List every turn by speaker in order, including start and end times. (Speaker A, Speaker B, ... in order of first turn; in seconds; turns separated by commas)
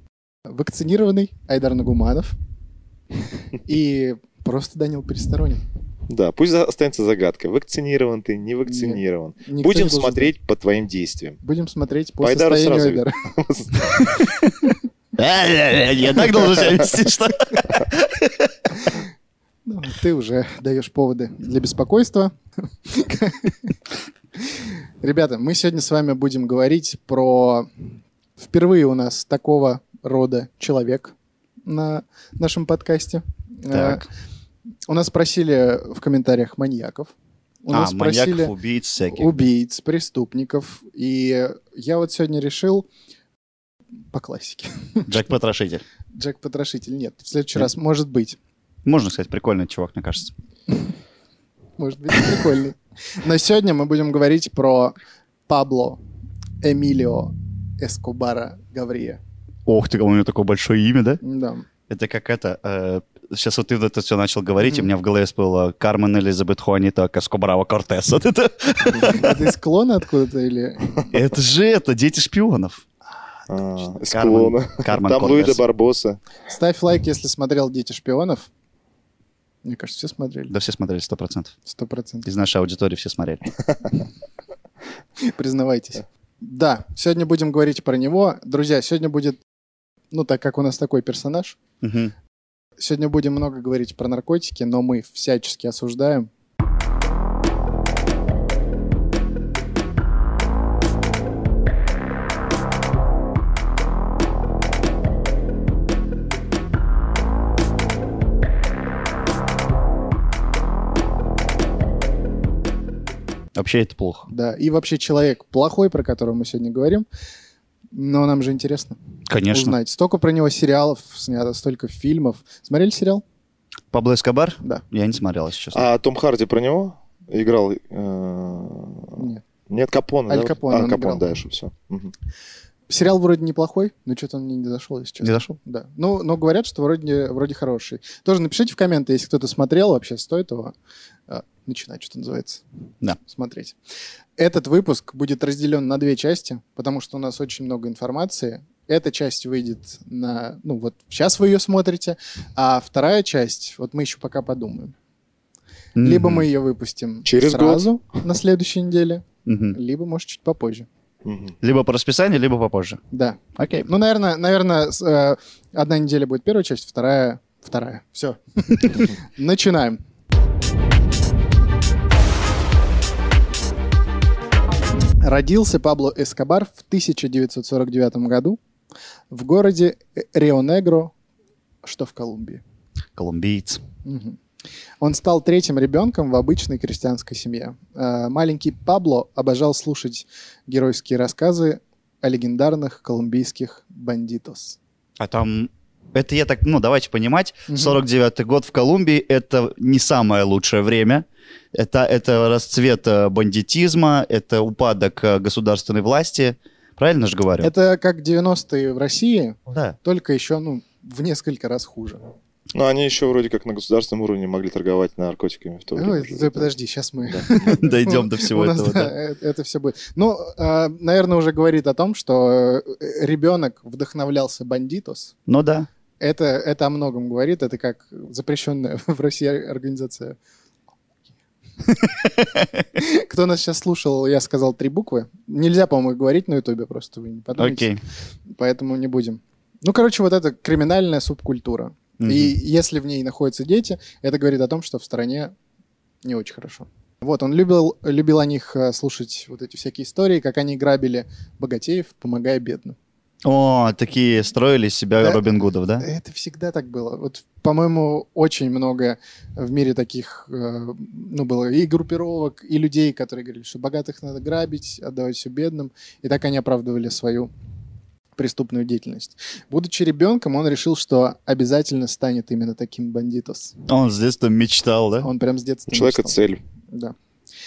Speaker A: 0.5-2.4, Speaker A: 3.6-5.6, Speaker B: 6.1-11.4, Speaker A: 8.7-10.3, Speaker A: 11.4-13.2, Speaker B: 12.2-14.2, Speaker C: 14.2-14.5, Speaker C: 15.2-18.8, Speaker A: 19.6-22.3, Speaker A: 22.8-23.8, Speaker A: 24.4-31.1, Speaker A: 31.6-34.0, Speaker C: 33.7-34.0, Speaker A: 34.9-37.1, Speaker A: 37.6-38.5, Speaker C: 37.7-39.4, Speaker A: 39.1-42.9, Speaker A: 44.1-45.2, Speaker C: 45.1-45.8, Speaker A: 46.1-48.4, Speaker C: 48.8-50.3, Speaker A: 51.8-55.0, Speaker A: 55.5-56.0, Speaker A: 56.6-59.2, Speaker C: 59.6-61.2, Speaker A: 61.2-61.6, Speaker C: 61.9-69.4, Speaker A: 64.6-64.9, Speaker A: 68.9-71.0, Speaker C: 71.1-72.8, Speaker B: 73.5-76.2, Speaker C: 74.1-75.6, Speaker A: 76.5-78.5, Speaker A: 79.6-80.5, Speaker C: 80.5-81.5, Speaker A: 81.7-82.2, Speaker C: 82.2-83.4, Speaker A: 85.2-89.4, Speaker A: 90.1-91.6, Speaker C: 91.8-92.1, Speaker A: 92.8-96.3, Speaker C: 113.5-114.3, Speaker A: 114.3-117.0, Speaker A: 117.9-119.0, Speaker C: 119.3-119.8, Speaker A: 119.5-123.2, Speaker C: 123.9-125.9, Speaker B: 125.7-132.1, Speaker A: 129.2-129.4, Speaker A: 130.3-131.4, Speaker A: 132.9-140.7, Speaker A: 141.3-142.6, Speaker A: 143.2-143.8, Speaker A: 144.4-154.9, Speaker C: 155.9-156.5, Speaker A: 156.0-160.9, Speaker B: 157.2-157.9, Speaker C: 159.4-159.8, Speaker B: 161.2-161.6, Speaker C: 161.6-163.0, Speaker A: 163.1-170.0, Speaker C: 163.6-163.9, Speaker A: 175.2-178.6, Speaker A: 179.3-181.1, Speaker A: 181.8-182.6, Speaker C: 183.1-183.8, Speaker A: 184.0-184.4, Speaker A: 185.0-194.8, Speaker C: 195.2-207.7, Speaker A: 197.7-198.0, Speaker A: 207.6-212.2, Speaker C: 209.7-209.9, Speaker B: 212.7-216.7, Speaker A: 215.9-225.3, Speaker B: 217.2-217.7, Speaker C: 217.6-219.1, Speaker C: 225.5-225.9, Speaker A: 226.2-230.4, Speaker C: 232.2-232.7, Speaker A: 232.9-237.9, Speaker C: 237.6-238.0, Speaker A: 238.5-245.5, Speaker C: 242.2-242.6, Speaker A: 246.2-253.0, Speaker C: 253.4-256.1, Speaker A: 256.0-267.5, Speaker A: 268.4-273.8, Speaker C: 273.9-275.3, Speaker A: 275.2-276.4, Speaker B: 275.9-276.6